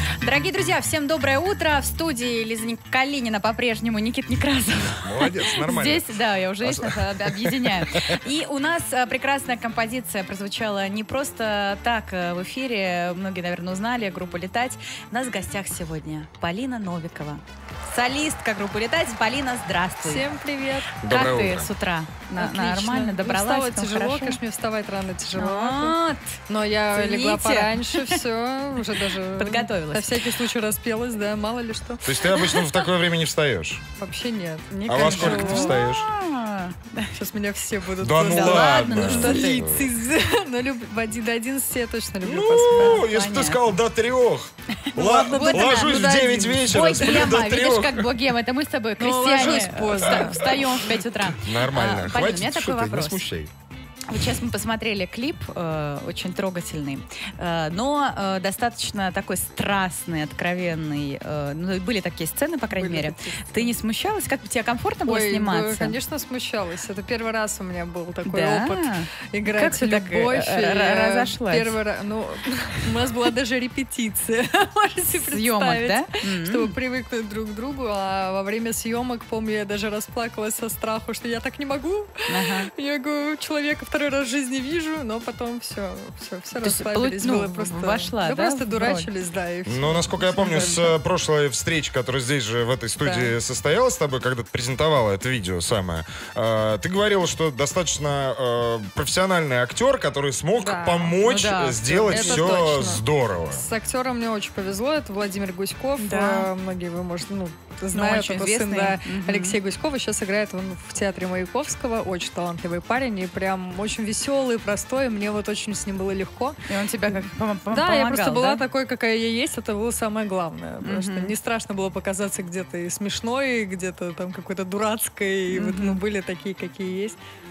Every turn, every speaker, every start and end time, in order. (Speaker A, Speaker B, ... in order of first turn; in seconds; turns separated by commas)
Speaker A: 0.2-20.3, Speaker B: 4.9-6.0, Speaker B: 6.6-8.2, Speaker C: 20.0-21.0, Speaker B: 21.0-21.7, Speaker A: 21.1-24.4, Speaker C: 22.4-26.0, Speaker A: 25.4-26.4, Speaker C: 26.5-32.2, Speaker A: 26.9-28.2, Speaker A: 29.3-30.3, Speaker B: 32.0-33.8, Speaker C: 34.0-35.8, Speaker A: 34.7-37.1, Speaker B: 34.9-36.1, Speaker C: 37.1-43.0, Speaker B: 38.0-39.9, Speaker A: 38.3-39.7, Speaker B: 42.2-48.1, Speaker A: 42.7-43.6, Speaker A: 44.8-53.2, Speaker C: 45.0-47.3, Speaker C: 49.0-50.7, Speaker B: 50.1-50.7, Speaker B: 51.3-53.5, Speaker A: 54.1-66.0, Speaker C: 62.7-63.7, Speaker C: 65.0-90.9, Speaker A: 68.2-71.7, Speaker A: 75.2-76.7, Speaker A: 82.3-82.7, Speaker A: 86.6-89.1, Speaker B: 89.7-103.7, Speaker A: 90.4-90.8, Speaker C: 93.0-93.3, Speaker C: 100.6-101.2, Speaker A: 101.2-102.5, Speaker C: 101.9-127.2, Speaker A: 106.0-106.5, Speaker A: 107.9-109.5, Speaker A: 116.7-118.6, Speaker A: 120.8-121.3, Speaker A: 125.5-126.0